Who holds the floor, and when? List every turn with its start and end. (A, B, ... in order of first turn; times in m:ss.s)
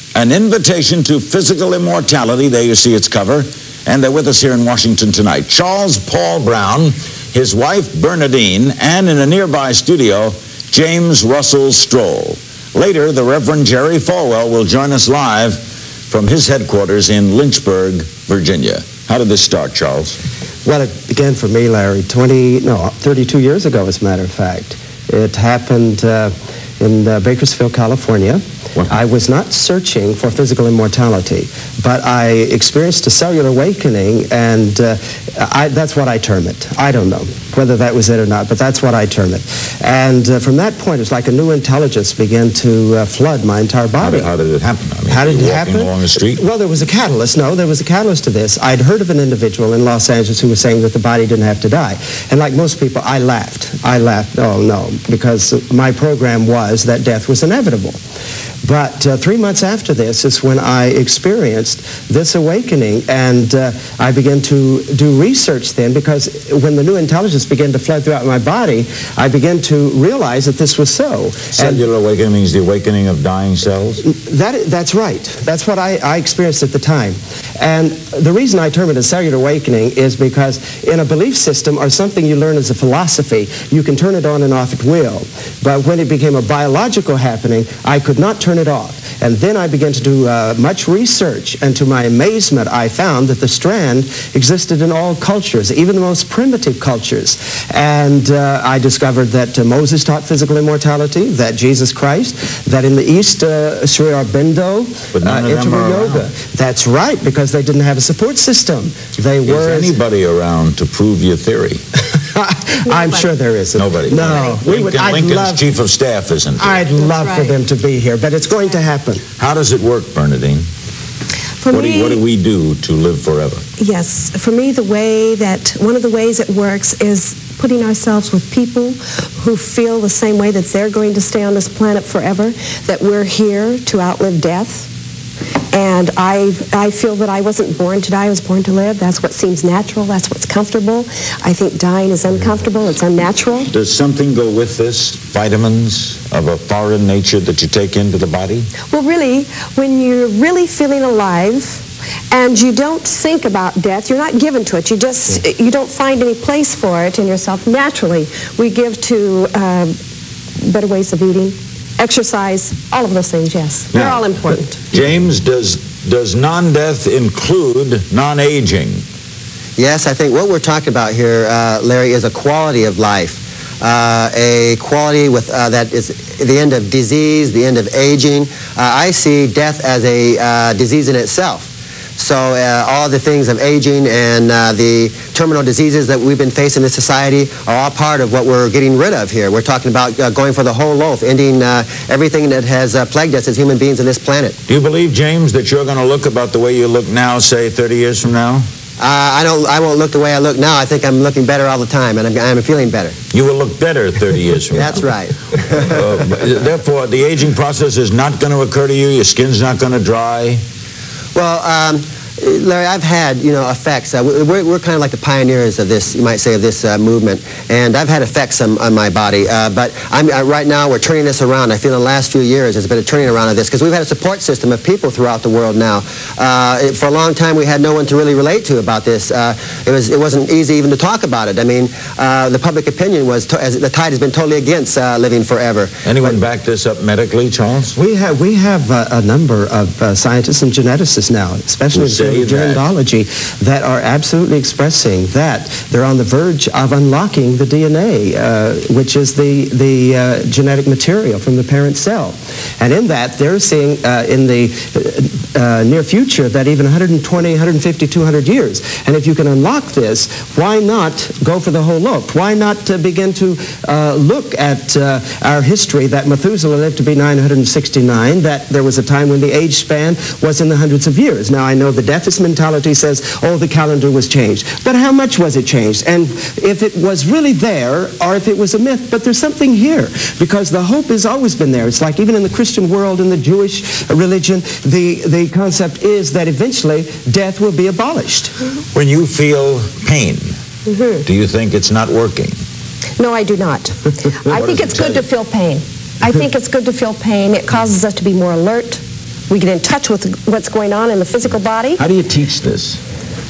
0:00.1-0:20.2 A
0:20.6-0:44.3 B
0:44.0-0:46.4 A
0:45.1-0:58.0 B
0:58.6-1:11.8 B
1:11.5-1:14.0 A
1:14.0-1:50.0 B
1:45.1-1:46.3 A
1:49.4-1:51.8 A
1:52.2-1:55.6 B
1:52.8-1:53.3 C
1:53.8-1:56.8 A
1:54.1-1:54.6 C
1:56.6-1:59.2 B
1:57.0-1:57.5 C
1:59.4-2:00.6 A
2:01.6-2:02.2 C
2:01.7-2:03.6 A
2:03.8-2:14.9 C
2:15.7-2:23.7 C
2:23.7-2:28.7 A
2:28.9-2:39.9 C
2:40.6-2:44.8 C
2:43.9-2:44.2 A
2:44.9-2:49.0 A
2:49.8-3:14.6 D
3:14.7-3:18.7 A
3:19.0-3:23.2 D
3:23.3-3:25.0 A
3:24.7-3:26.0 D
3:25.8-3:30.6 A
3:31.3-3:56.0 D
3:56.0-3:58.0 A
3:58.0-4:48.5 B
4:01.9-4:02.8 A
4:48.9-4:50.5 A
4:50.8-4:51.2 C
4:51.2-4:52.6 A
4:53.2-5:02.0 C
4:54.5-4:55.2 A
5:02.0-5:03.0 A